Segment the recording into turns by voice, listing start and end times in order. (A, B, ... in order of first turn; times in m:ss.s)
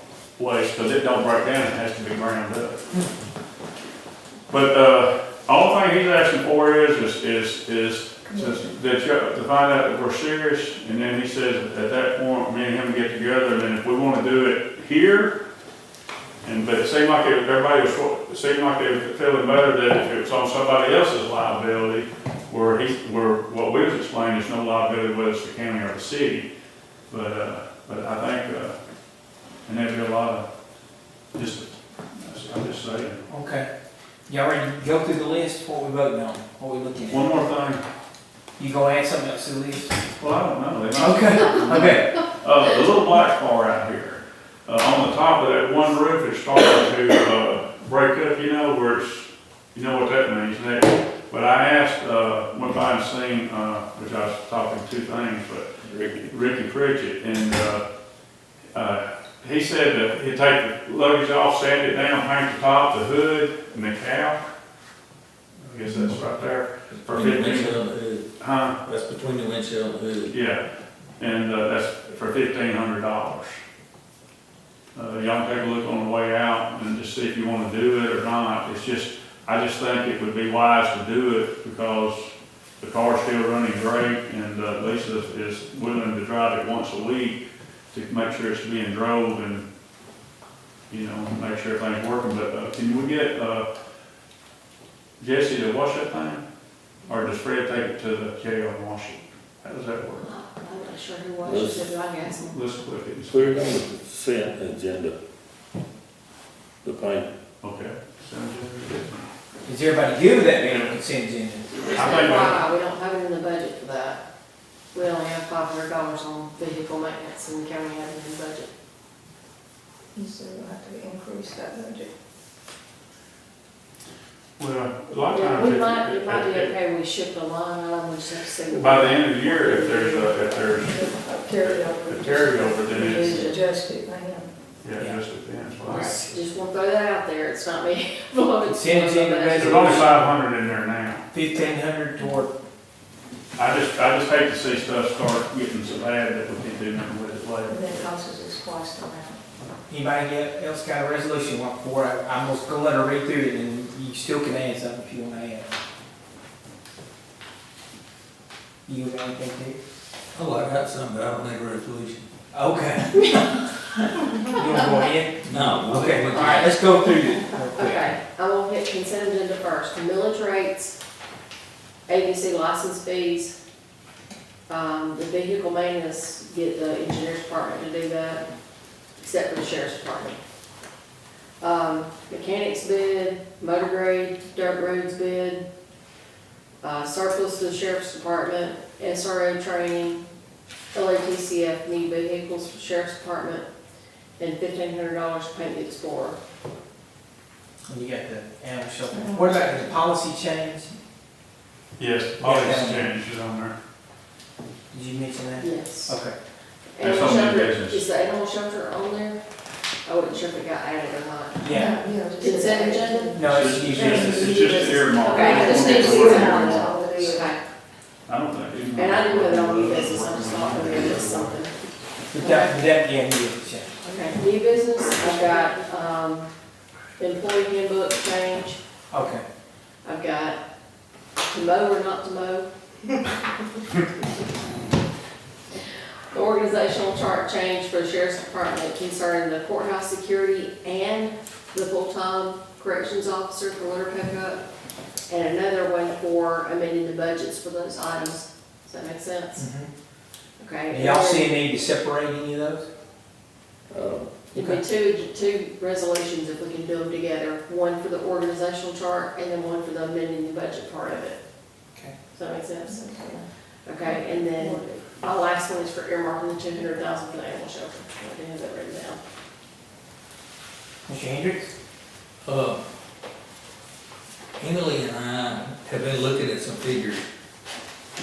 0:00.4-0:02.8 A
0:04.5-0:15.3 A
0:08.3-0:08.7 B
0:16.4-0:26.5 A
0:27.1-0:28.8 A
0:29.6-0:30.4 A
0:31.3-0:33.2 A
0:33.3-0:33.7 C
0:34.3-0:37.3 C
0:37.1-0:37.8 A
0:38.6-0:39.9 C
0:40.2-0:55.7 A
0:41.0-0:42.1 C
0:55.8-0:56.2 D
0:56.2-0:57.8 A
0:58.7-1:04.4 A
1:05.6-1:07.8 A
1:06.9-1:08.3 E
1:08.4-1:08.8 A
1:08.8-1:10.3 E
1:10.3-1:10.6 A
1:11.2-1:13.6 A
1:14.9-1:22.3 A
1:22.8-1:29.6 A
1:30.9-1:33.7 A
1:35.2-1:36.4 A
1:37.1-1:40.3 A
1:40.2-1:42.6 F
1:41.4-1:41.9 D
1:42.4-1:43.6 A
1:43.3-1:45.2 D
1:46.8-1:47.3 D
1:47.6-1:49.2 A
1:49.6-1:51.7 C
1:50.6-1:50.9 A
1:51.9-1:52.6 A
1:51.9-1:54.2 F
1:54.9-1:58.7 F
2:00.1-2:02.1 B
2:04.6-2:06.7 A
2:05.3-2:09.8 F
2:08.7-2:13.5 A
2:09.6-2:14.5 B
2:12.9-2:13.6 F
2:14.8-2:16.2 A
2:15.8-2:20.0 F
2:18.6-2:20.2 C
2:19.6-2:21.2 A
2:21.3-2:22.5 C
2:23.6-2:27.8 A
2:27.7-2:29.4 B
2:29.9-2:35.7 C
2:38.8-2:39.8 C
2:40.3-2:42.3 E
2:42.5-2:43.5 C
2:44.5-2:48.1 C
2:45.4-2:46.8 E
2:46.3-2:46.7 F
2:47.7-2:51.0 F
2:52.1-2:53.6 F
2:54.7-2:58.4 F
2:59.2-3:00.4 F
3:01.6-3:05.6 F
3:06.8-3:10.2 F
3:10.9-3:13.7 F
3:14.4-3:16.4 F
3:17.9-3:20.9 C
3:19.1-3:19.9 B
3:22.0-3:23.7 A
3:22.4-3:23.1 C
3:24.9-3:26.4 C
3:25.6-3:26.2 F
3:26.9-3:29.4 F
3:27.0-3:28.0 A
3:30.0-3:33.3 F
3:31.6-3:32.0 C
3:31.7-3:37.6 B
3:33.3-3:34.8 C
3:33.4-3:37.0 A
3:35.1-3:37.6 F
3:38.3-3:41.6 A
3:38.9-3:41.7 F
3:42.3-3:44.0 C
3:42.4-3:42.8 F
3:44.0-3:45.9 B
3:44.1-3:46.5 F
3:47.2-3:48.8 F
3:49.1-3:49.4 C
3:50.0-3:50.6 F
3:51.5-3:52.7 F
3:56.3-4:04.6 F
4:05.3-4:09.7 F
4:09.6-4:09.9 C
4:10.6-4:11.6 F
4:10.9-4:12.9 C
4:13.9-4:14.3 D
4:14.5-4:21.4 F
4:14.5-4:14.8 C
4:22.3-4:23.3 F
4:22.8-4:23.4 B
4:23.8-4:29.2 F
4:24.0-4:25.0 B
4:31.1-4:31.7 C
4:32.4-4:32.8 E
4:34.6-4:37.2 E